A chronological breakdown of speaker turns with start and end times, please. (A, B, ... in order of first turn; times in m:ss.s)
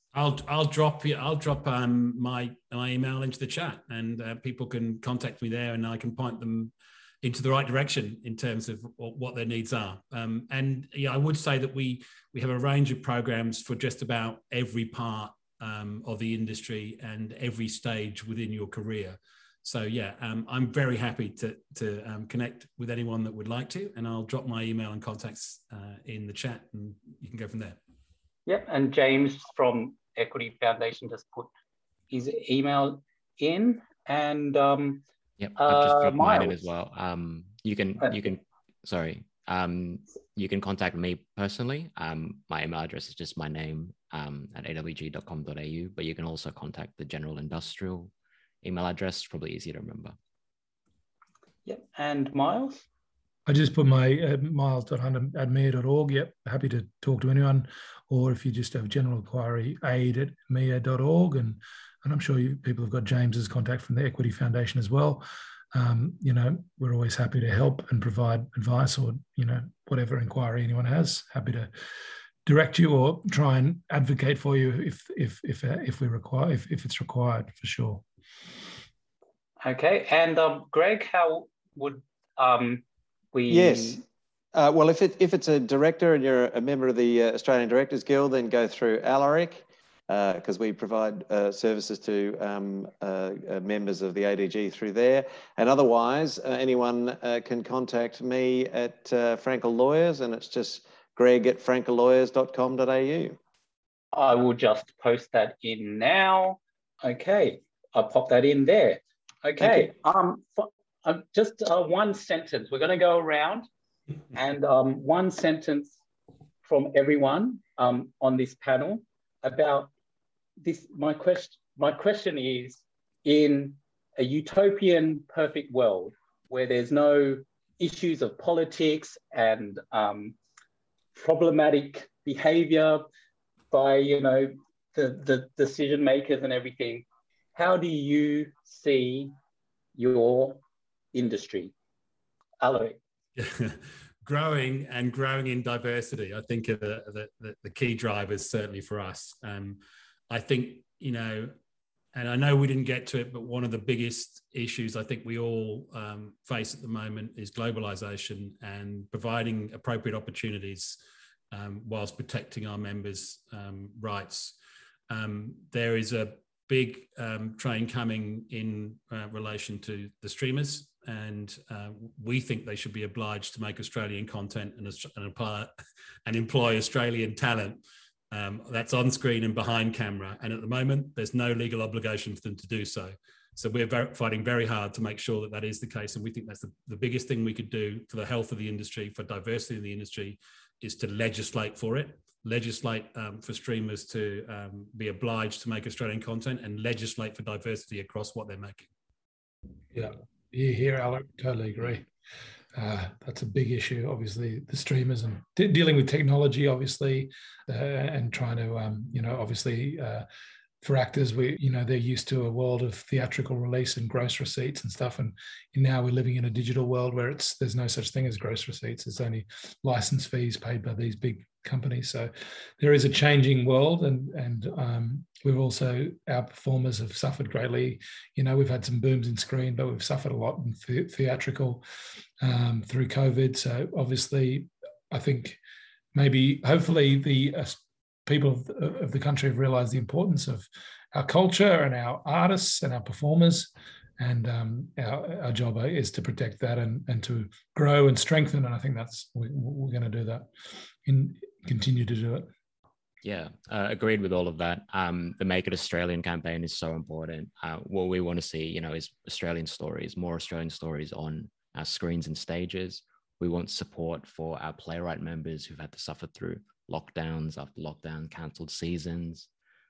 0:00.1-0:27.8 A
0:28.5-0:31.5 B
0:32.1-0:35.0 B
0:35.4-0:48.1 C
0:35.6-0:36.6 B
0:48.6-0:50.2 C
0:51.7-0:52.9 B
0:53.5-1:11.7 D
1:12.4-1:18.0 D
1:19.6-1:24.0 B
1:23.5-1:24.0 E
1:24.6-1:43.4 E
1:44.1-1:53.7 B
1:49.6-1:49.9 E
1:54.3-1:56.0 B
1:56.6-1:59.9 B
2:00.6-2:10.4 B
2:11.2-2:13.0 B
2:13.7-2:19.3 B
2:20.0-2:20.6 B
2:21.1-2:21.7 B
2:22.6-2:23.0 B
2:23.4-2:31.5 A
2:32.1-2:41.0 A
2:41.5-2:44.6 A
2:45.1-2:55.7 A
2:56.3-3:18.9 A
3:19.9-3:22.1 D
3:22.8-3:30.3 D
3:30.8-3:51.8 D
3:52.4-3:55.6 D
3:56.1-4:10.5 D
4:11.0-4:12.5 D
4:13.2-4:29.5 C